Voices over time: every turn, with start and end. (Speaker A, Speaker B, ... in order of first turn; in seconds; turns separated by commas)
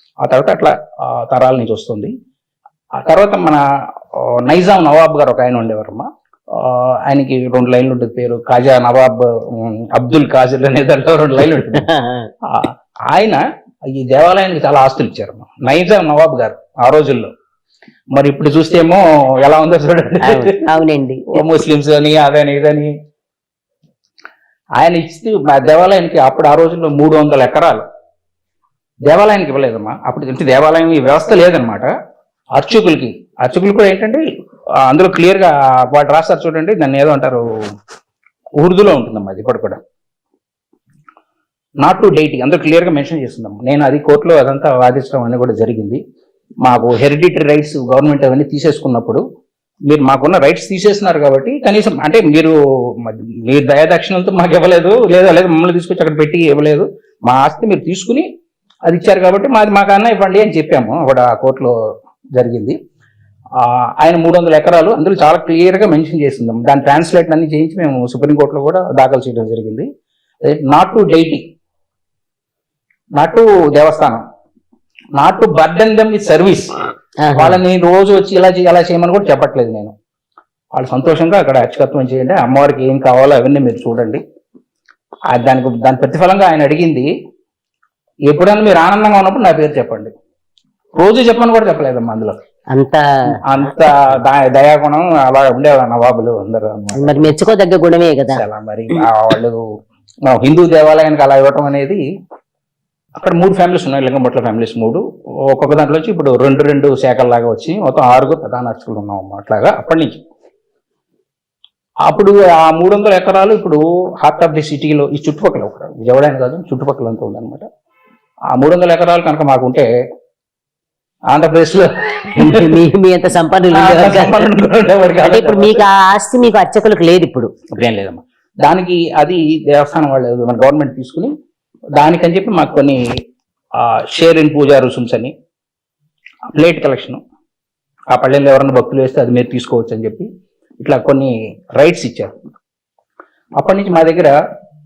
Speaker A: 0.2-2.1, Speaker A: 3.0-11.9, Speaker B: 11.7-12.3, Speaker A: 12.5-17.3, Speaker A: 18.1-20.6, Speaker B: 20.2-21.4, Speaker A: 21.3-22.9, Speaker A: 24.8-27.8, Speaker A: 29.1-31.9, Speaker A: 32.5-34.2, Speaker A: 34.9-37.4, Speaker A: 38.6-39.8, Speaker A: 41.8-46.0, Speaker A: 46.6-49.2, Speaker A: 49.9-58.3, Speaker A: 58.9-61.7, Speaker A: 62.4-62.8, Speaker A: 63.6-69.9, Speaker A: 70.4-71.4, Speaker A: 73.2-74.2, Speaker A: 75.2-76.7, Speaker B: 77.2-77.6, Speaker A: 77.3-79.9, Speaker A: 80.8-84.2, Speaker A: 85.3-87.1, Speaker A: 88.3-90.1, Speaker A: 91.0-92.3, Speaker B: 92.7-93.4, Speaker A: 93.4-97.3, Speaker B: 96.9-98.4, Speaker A: 98.3-99.6, Speaker A: 100.3-102.0, Speaker A: 103.2-110.2, Speaker A: 112.0-117.7, Speaker A: 118.5-119.9, Speaker A: 121.3-122.7, Speaker B: 122.4-124.4, Speaker A: 123.7-125.8, Speaker B: 125.2-127.5, Speaker A: 127.7-131.3, Speaker A: 132.0-133.0, Speaker A: 133.8-135.3, Speaker A: 136.6-137.2, Speaker A: 138.1-140.3, Speaker A: 140.8-142.4, Speaker A: 143.6-144.4